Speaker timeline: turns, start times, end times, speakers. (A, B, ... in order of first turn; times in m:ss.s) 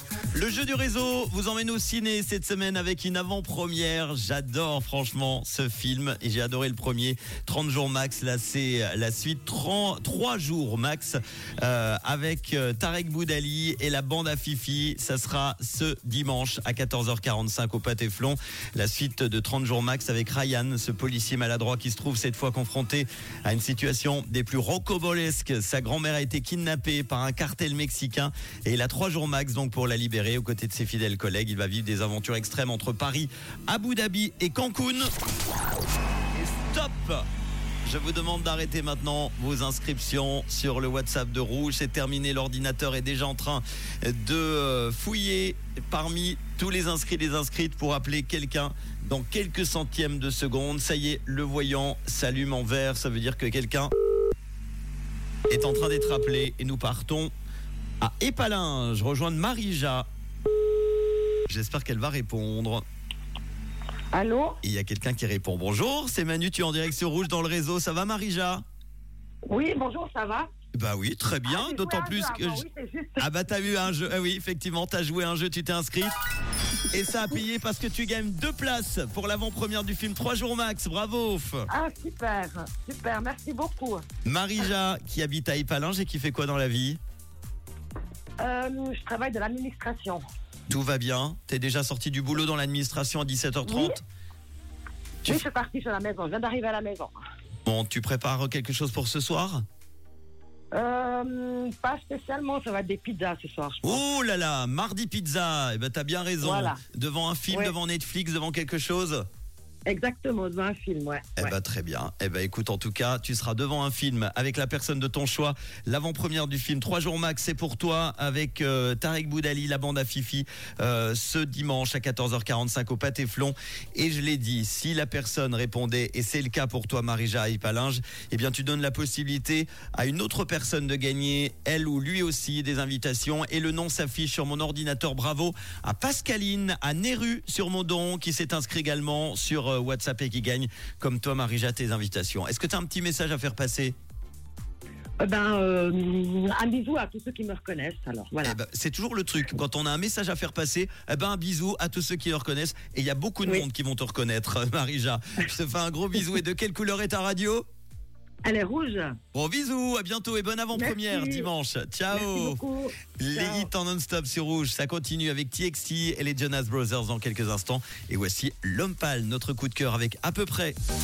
0:00.3-0:35.1 A
0:36.3-0:37.2 A
0:37.8-0:53.9 A
0:55.5-0:57.3 A
0:58.0-1:00.1 A
1:01.5-1:02.8 A
1:04.1-1:04.6 B
1:04.6-1:08.6 A
1:09.5-1:10.5 B
1:10.7-1:12.6 A
1:11.4-1:13.3 B
1:13.2-1:16.1 A
1:16.9-1:21.7 A
1:21.7-1:24.0 B
1:24.2-1:27.0 A
1:28.4-1:30.2 B
1:30.7-1:34.0 A
1:33.6-1:34.0 B
1:35.2-1:37.2 B
1:37.6-1:39.6 A
1:40.7-1:44.0 B
1:43.8-1:49.2 A
1:46.4-1:46.8 B
1:49.9-1:51.5 B
1:51.4-2:23.9 A
2:25.2-2:28.6 B
2:28.4-2:37.6 A
2:38.4-2:39.2 B
2:39.3-2:42.6 A
2:40.7-2:41.5 B
2:42.1-2:43.7 B
2:43.2-2:50.8 A